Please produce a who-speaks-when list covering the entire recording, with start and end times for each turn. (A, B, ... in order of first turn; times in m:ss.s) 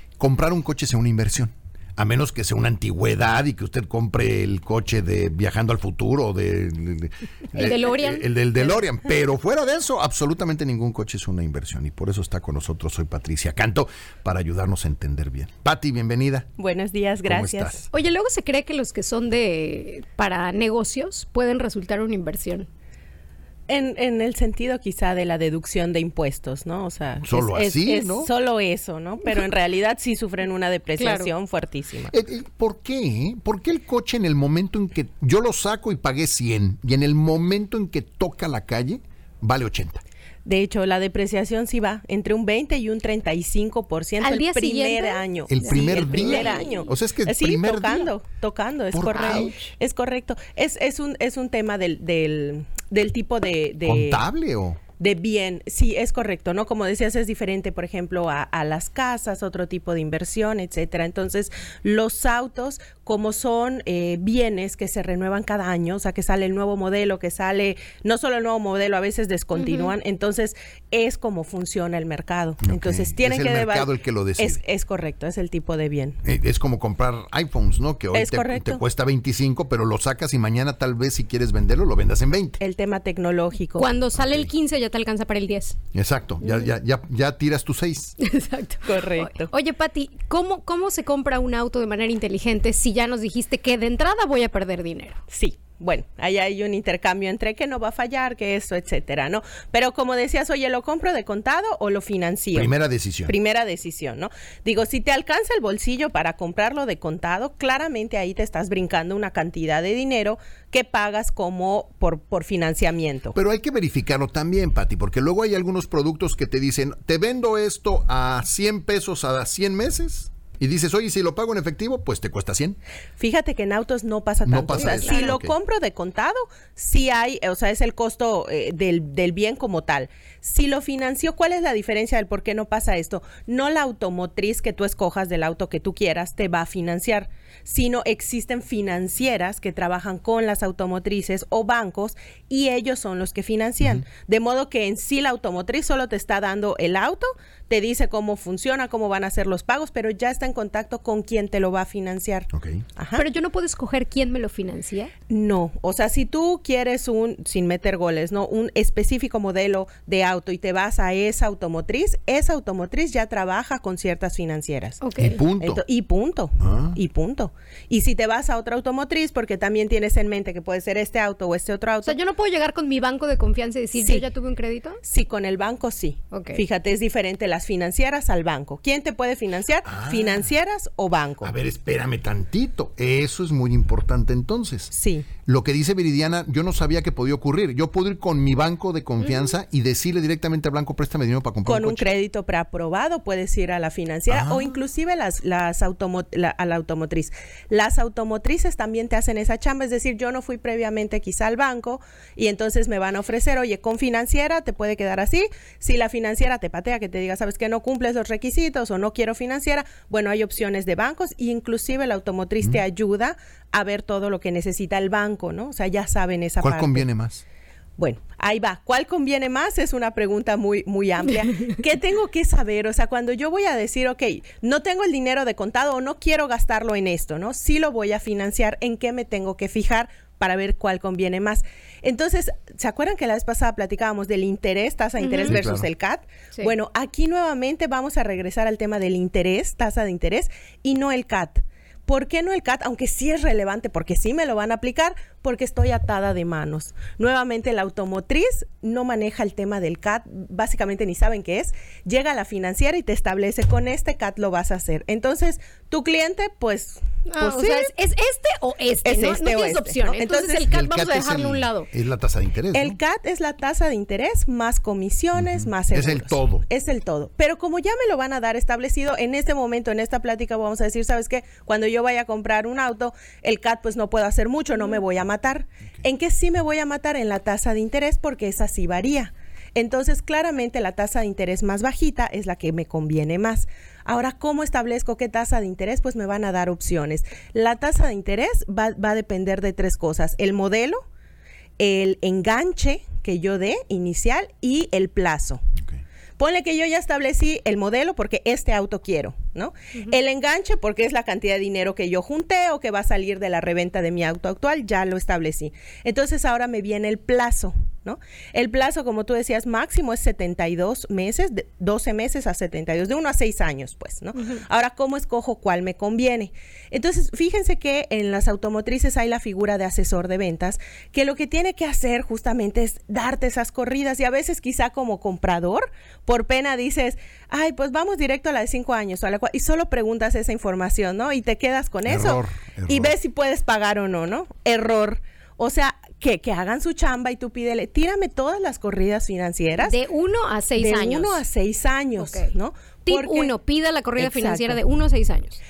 0:00.2-0:16.5 A
0:07.5-0:08.7 B
0:16.6-0:17.9 C
0:17.3-0:17.8 A
0:17.9-0:22.7 B
0:23.7-0:32.2 C
0:27.2-0:28.3 A
0:31.0-0:31.3 B
0:32.1-0:40.0 A
0:40.4-0:54.2 C
0:44.2-0:46.9 B
0:45.5-0:48.1 A
0:48.9-0:49.6 A
0:49.1-0:49.6 B
0:53.9-0:54.8 A
0:55.0-1:16.2 C
1:09.5-1:09.9 B
1:12.6-1:14.6 A
1:16.2-1:22.6 A
1:18.1-1:18.8 C
1:22.6-1:23.9 C
1:23.8-1:25.8 B
1:24.2-1:24.5 A
1:25.9-1:28.2 A
1:28.2-1:35.2 B
1:28.8-1:29.5 C
1:35.3-1:53.4 C
1:42.5-1:43.3 A
1:53.4-2:02.8 A
2:03.2-2:33.2 C
2:04.4-2:05.6 A
2:04.9-2:05.3 B
2:32.5-2:32.8 A
2:33.2-2:35.1 B
2:35.3-2:45.0 C
2:45.0-2:45.4 B
2:45.2-2:45.8 A
2:45.6-2:52.2 C
2:46.6-2:47.0 A
2:52.0-2:55.0 B
2:54.0-2:54.3 C
2:55.0-3:01.5 C
2:56.3-2:56.6 B
2:59.8-3:00.4 A
3:01.4-3:04.9 A
3:04.9-3:05.3 C
3:05.4-3:12.1 A
3:11.6-3:37.1 C
3:14.3-3:14.7 A
3:36.6-3:37.4 A
3:38.0-4:17.9 C
3:55.2-3:55.6 B
3:55.5-3:55.9 A
4:17.3-4:21.9 B
4:19.0-4:20.7 C
4:20.7-4:23.0 A
4:22.7-4:51.0 C
4:25.4-4:26.6 A
4:51.8-4:55.6 C
4:56.4-5:40.0 C
5:32.1-5:33.1 A
5:39.8-5:41.4 B
5:40.8-5:43.5 C
5:42.2-5:42.5 B
5:43.1-5:45.6 B
5:44.2-5:44.8 C